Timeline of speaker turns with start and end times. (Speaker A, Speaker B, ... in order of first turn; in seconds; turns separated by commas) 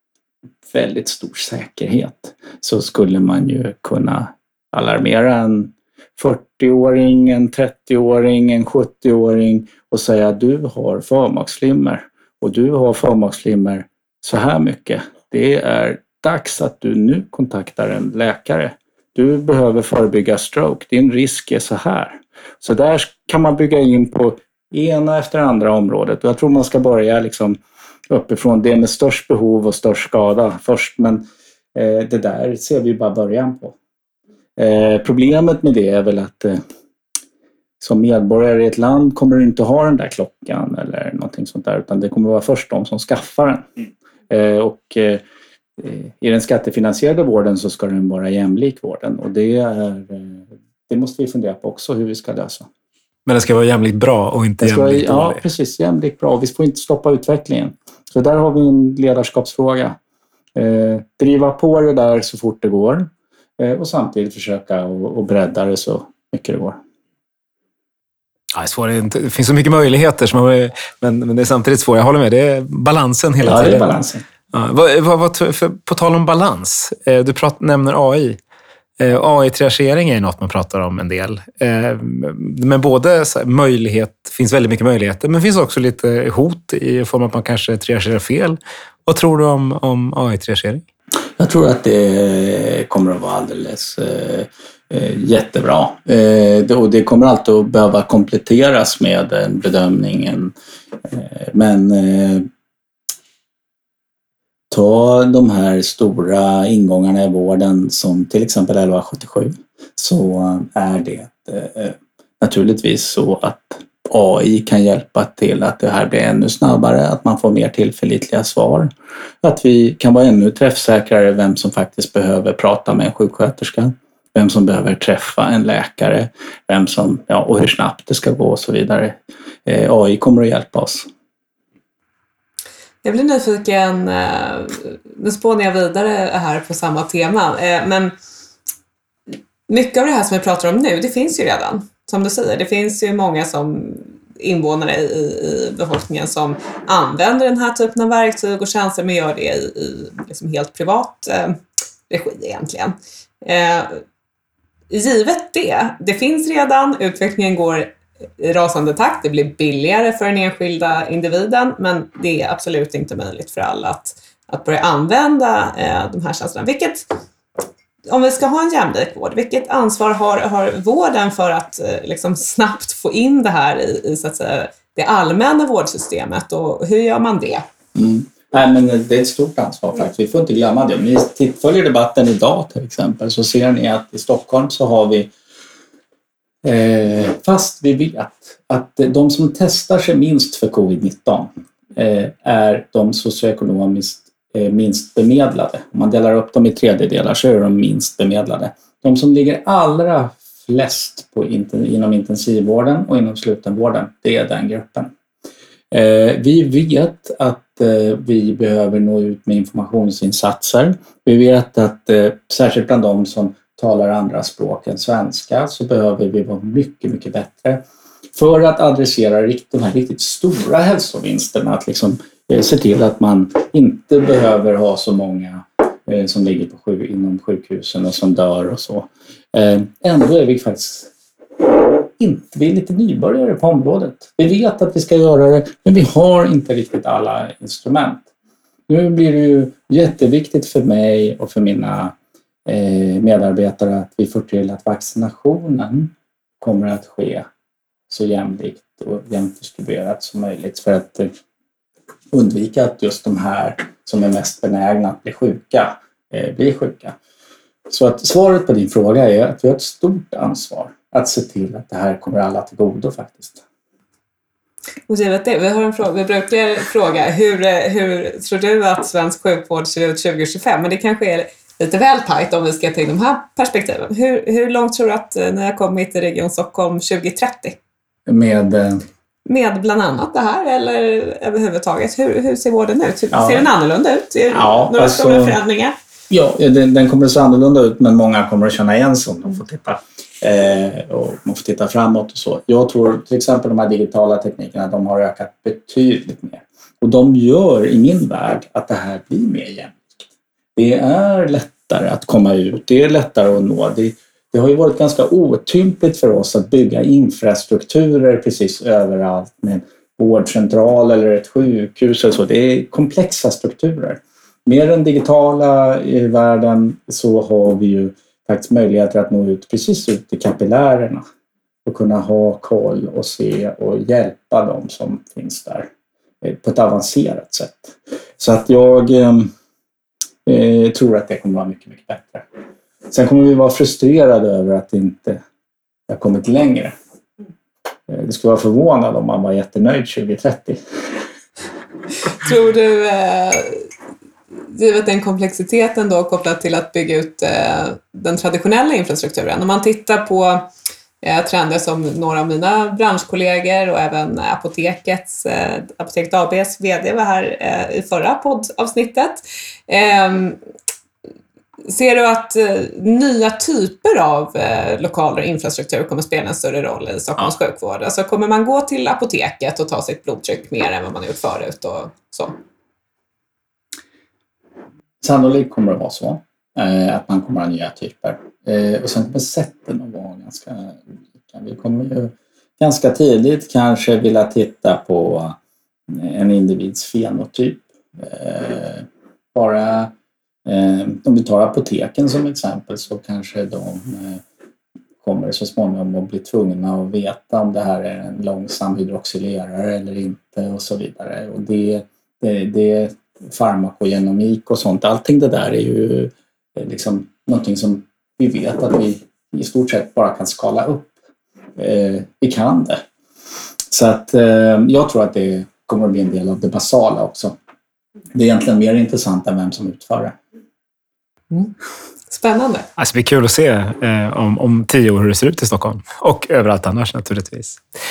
Speaker A: 0.7-33.8, Speaker A: 34.6-36.6, Speaker A: 37.8-43.7, Speaker A: 44.3-45.2, Speaker A: 45.8-52.7, Speaker B: 53.2-55.4, Speaker A: 54.6-60.0, Speaker A: 60.5-66.8, Speaker B: 68.5-73.9, Speaker A: 73.4-74.2, Speaker B: 74.5-78.4, Speaker B: 79.0-90.8, Speaker A: 91.4-100.5, Speaker A: 101.0-102.5, Speaker A: 104.7-118.9, Speaker A: 119.4-131.1, Speaker C: 133.0-138.1, Speaker C: 139.7-154.0, Speaker C: 154.9-167.1, Speaker C: 168.1-177.6, Speaker A: 177.9-185.3, Speaker A: 186.6-205.1, Speaker A: 205.9-217.8, Speaker A: 218.3-231.1, Speaker A: 232.0-238.2, Speaker A: 238.9-242.1, Speaker A: 242.7-247.4, Speaker A: 248.1-251.3, Speaker A: 252.3-257.1, Speaker A: 257.9-263.6, Speaker C: 265.1-277.8, Speaker A: 278.3-279.0, Speaker C: 279.4-285.9, Speaker A: 283.3-283.7, Speaker A: 284.5-285.6, Speaker A: 286.3-321.2, Speaker A: 321.8-325.9, Speaker A: 326.4-329.5, Speaker A: 330.4-332.4, Speaker A: 333.1-335.4, Speaker A: 336.1-336.9, Speaker A: 338.1-340.8, Speaker C: 342.3-343.9, Speaker C: 344.7-350.7, Speaker C: 351.2-360.6, Speaker C: 361.8-372.6, Speaker A: 375.2-385.6, Speaker A: 386.1-390.1, Speaker A: 390.6-394.4, Speaker A: 395.2-411.2, Speaker A: 411.8-413.0, Speaker A: 413.9-417.6, Speaker A: 418.3-420.4, Speaker C: 422.3-422.9, Speaker B: 423.0-427.8